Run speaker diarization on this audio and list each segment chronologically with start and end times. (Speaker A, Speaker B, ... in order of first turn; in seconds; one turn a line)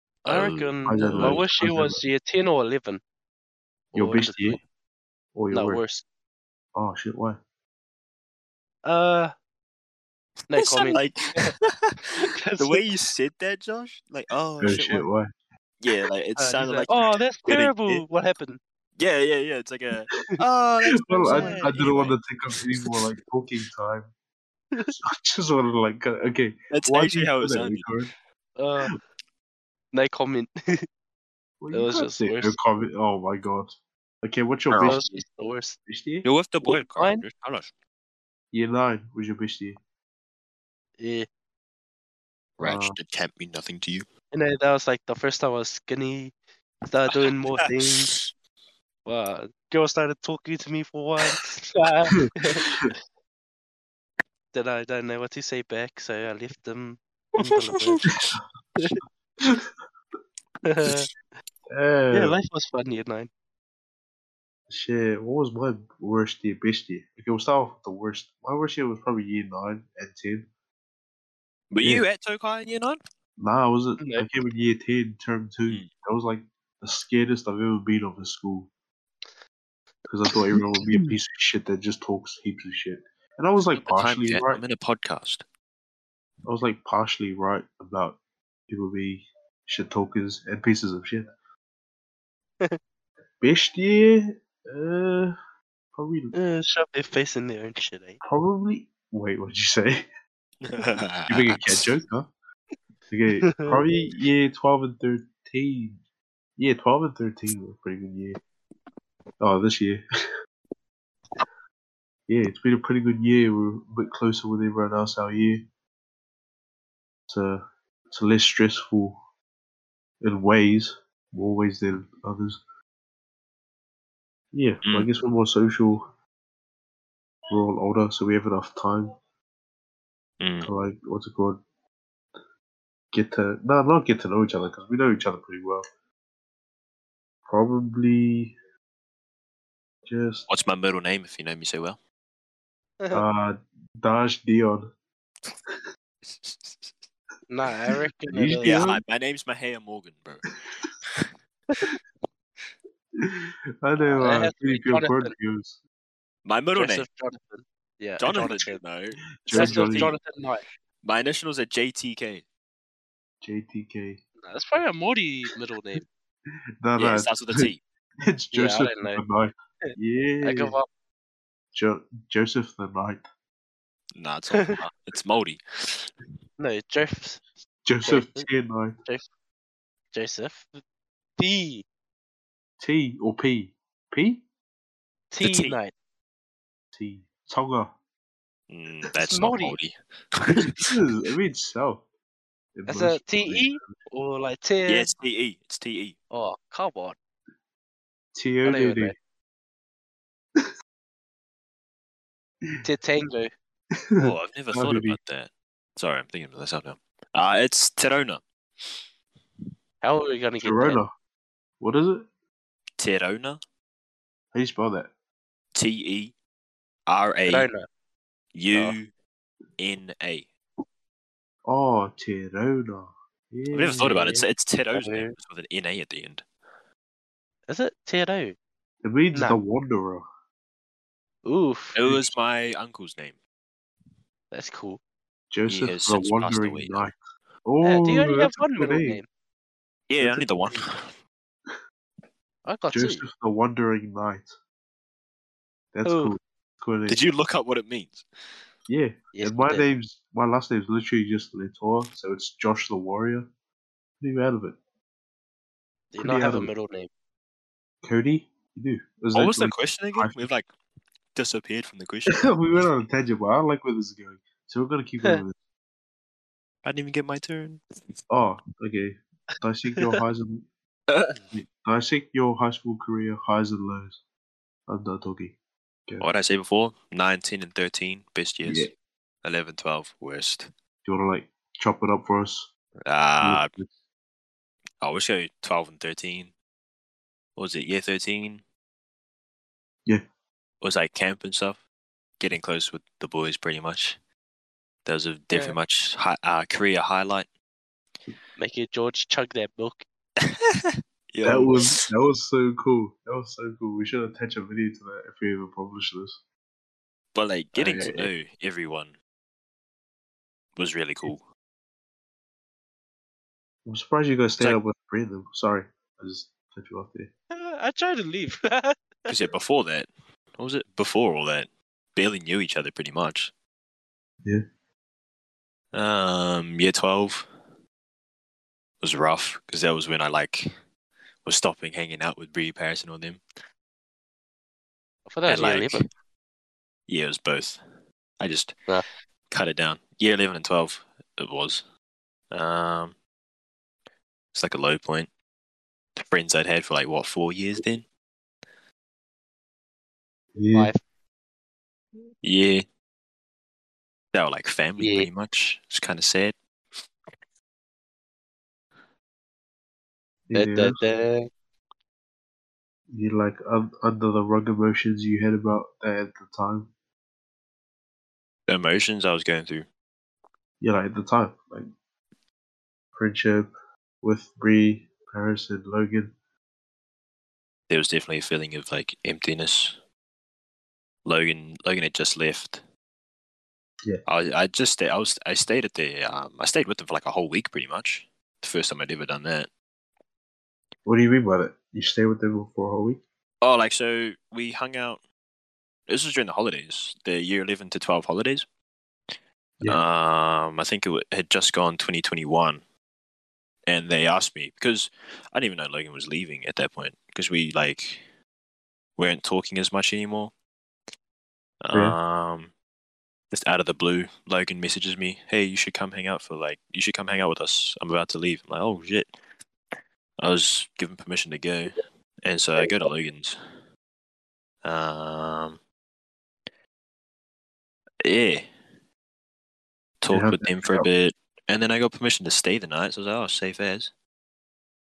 Speaker A: 0.2-3.0
Speaker B: 0.2-1.4
Speaker C: 0.8-2.0
Speaker A: 3.9-4.6
Speaker C: 3.9-4.6
Speaker C: 5.3-5.8
Speaker A: 5.5-6.0
Speaker C: 6.7-7.4
Speaker A: 8.8-9.3
Speaker A: 10.5-11.5
Speaker B: 10.5-15.1
Speaker A: 12.1-12.8
Speaker C: 14.6-15.3
Speaker B: 15.8-18.0
Speaker A: 16.4-18.6
Speaker B: 18.9-22.2
Speaker C: 21.0-24.1
Speaker A: 21.2-21.8
Speaker C: 25.0-28.1
Speaker B: 26.7-27.9
Speaker A: 28.6-28.9
Speaker A: 29.9-30.9
Speaker C: 31.6-35.0
Speaker A: 31.7-32.5
Speaker B: 34.7-35.1
Speaker A: 34.8-35.8
Speaker C: 35.9-36.2
Speaker B: 36.2-37.7
Speaker A: 36.6-37.2
Speaker C: 38.5-39.8
Speaker A: 41.0-41.3
Speaker B: 42.6-44.1
Speaker C: 42.6-43.0
Speaker A: 44.3-46.3
Speaker A: 46.9-48.1
Speaker B: 47.6-48.3
Speaker A: 49.0-53.0
Speaker A: 54.5-58.2
Speaker B: 57.4-58.2
Speaker C: 58.1-58.4
Speaker A: 60.6-61.1
Speaker C: 61.7-62.4
Speaker A: 62.1-63.3
Speaker C: 64.7-70.5
Speaker B: 71.7-73.0
Speaker C: 73.4-78.7
Speaker A: 74.0-74.3
Speaker C: 80.1-84.6
Speaker B: 83.7-85.4
Speaker C: 86.5-88.2
Speaker C: 88.7-91.3
Speaker C: 93.4-95.3
Speaker C: 95.9-96.3
Speaker A: 96.3-98.2
Speaker C: 98.2-100.0
Speaker B: 100.6-101.8
Speaker C: 101.3-102.3
Speaker C: 103.1-106.0
Speaker A: 103.4-103.8
Speaker C: 106.6-108.4
Speaker C: 109.4-110.0
Speaker C: 112.3-115.7
Speaker C: 117.3-119.2
Speaker C: 120.2-122.6
Speaker C: 124.5-126.0
Speaker B: 124.8-125.1
Speaker C: 127.5-129.1
Speaker B: 130.4-130.7
Speaker C: 130.6-131.6
Speaker C: 133.1-135.8
Speaker C: 137.4-138.5
Speaker C: 140.1-140.5
Speaker B: 140.5-142.0
Speaker C: 143.1-144.9
Speaker B: 146.2-147.1
Speaker A: 147.5-148.8
Speaker C: 148.3-149.0
Speaker B: 148.6-150.5
Speaker B: 151.0-151.3
Speaker C: 153.2-155.8
Speaker A: 154.0-155.3
Speaker B: 156.4-157.1
Speaker A: 156.8-158.8
Speaker B: 158.2-160.2
Speaker C: 159.4-160.2
Speaker A: 159.5-160.6
Speaker B: 161.0-162.4
Speaker C: 163.4-164.2
Speaker A: 164.4-166.1
Speaker C: 166.8-167.7
Speaker B: 167.0-167.8
Speaker C: 168.3-170.8
Speaker A: 168.5-169.2
Speaker A: 169.8-170.9
Speaker C: 171.7-173.2
Speaker B: 174.1-176.1
Speaker A: 176.6-177.4
Speaker C: 177.8-179.0
Speaker A: 178.0-178.5
Speaker A: 180.1-180.8
Speaker A: 181.4-181.8
Speaker C: 182.8-184.4
Speaker A: 185.3-185.9
Speaker B: 185.4-185.8
Speaker C: 186.9-187.9
Speaker B: 188.7-190.9
Speaker A: 189.2-189.8
Speaker C: 190.8-192.0
Speaker C: 192.8-193.9
Speaker A: 192.9-195.1
Speaker B: 194.8-196.2
Speaker A: 196.3-197.2
Speaker C: 198.3-199.1
Speaker A: 198.6-199.2
Speaker A: 202.8-203.5
Speaker C: 204.0-205.2
Speaker B: 204.2-208.4
Speaker A: 210.0-211.0
Speaker C: 210.6-211.1
Speaker C: 211.8-212.2
Speaker B: 213.0-213.6
Speaker C: 214.5-215.1
Speaker B: 215.7-216.3
Speaker B: 217.1-217.7
Speaker A: 217.5-217.9
Speaker B: 218.5-219.1
Speaker B: 219.8-220.5
Speaker C: 221.7-224.3
Speaker B: 223.7-226.4
Speaker A: 224.0-224.4
Speaker A: 224.9-225.3
Speaker A: 227.7-228.6
Speaker C: 229.0-230.2
Speaker A: 229.3-229.6
Speaker A: 231.4-231.9
Speaker B: 231.9-233.4
Speaker A: 234.5-235.0
Speaker C: 235.5-239.2
Speaker B: 235.7-237.1
Speaker A: 237.8-239.3
Speaker B: 240.1-241.1
Speaker C: 240.2-240.6
Speaker A: 242.6-243.2
Speaker C: 242.9-244.5
Speaker C: 245.9-247.2
Speaker A: 246.0-246.3
Speaker B: 247.1-248.2
Speaker C: 248.9-253.5
Speaker A: 249.3-249.8
Speaker C: 254.2-254.8
Speaker A: 256.1-257.1
Speaker C: 256.2-256.7
Speaker C: 258.0-260.4
Speaker B: 259.3-260.7
Speaker B: 261.3-262.5
Speaker C: 262.3-265.6
Speaker B: 266.8-267.8
Speaker C: 268.3-270.6
Speaker B: 271.1-271.4
Speaker C: 271.5-274.2
Speaker C: 274.9-275.6
Speaker B: 276.2-278.9
Speaker C: 278.6-278.9
Speaker B: 279.4-280.7
Speaker C: 281.0-282.7
Speaker B: 283.0-283.7
Speaker C: 283.4-283.9
Speaker B: 285.0-286.5
Speaker B: 287.6-288.6
Speaker B: 290.8-291.8
Speaker B: 292.4-294.2
Speaker B: 295.0-297.5
Speaker A: 295.5-295.8
Speaker A: 298.6-300.0
Speaker B: 300.4-302.0
Speaker C: 301.4-306.4
Speaker B: 307.3-309.1
Speaker C: 307.8-308.3
Speaker B: 310.8-311.4
Speaker C: 313.9-317.3
Speaker A: 317.5-319.3
Speaker B: 319.3-323.5
Speaker B: 325.9-327.5
Speaker B: 329.0-330.7
Speaker B: 331.4-333.4
Speaker A: 335.3-336.0
Speaker B: 335.5-336.1
Speaker B: 337.1-337.8
Speaker B: 338.4-338.8
Speaker B: 339.5-341.8
Speaker B: 342.5-343.1
Speaker B: 344.5-345.3
Speaker B: 346.1-348.1
Speaker C: 350.6-350.9
Speaker A: 350.7-351.0
Speaker B: 352.4-352.8
Speaker B: 354.3-356.6
Speaker A: 355.0-355.3
Speaker C: 360.5-361.0
Speaker A: 360.5-361.5
Speaker C: 363.1-366.9
Speaker B: 368.7-369.9
Speaker C: 370.8-371.9
Speaker C: 373.1-373.7
Speaker C: 374.2-376.3
Speaker B: 377.9-380.0
Speaker B: 381.2-382.8
Speaker B: 384.2-389.7
Speaker C: 391.1-393.2
Speaker B: 393.6-395.2
Speaker B: 396.1-398.6
Speaker B: 399.8-402.8
Speaker B: 403.9-408.2
Speaker B: 409.2-410.5
Speaker B: 411.8-412.7
Speaker B: 413.5-419.3
Speaker B: 420.4-423.6
Speaker B: 424.8-425.8
Speaker B: 428.2-428.7
Speaker B: 430.2-434.1
Speaker C: 430.3-431.1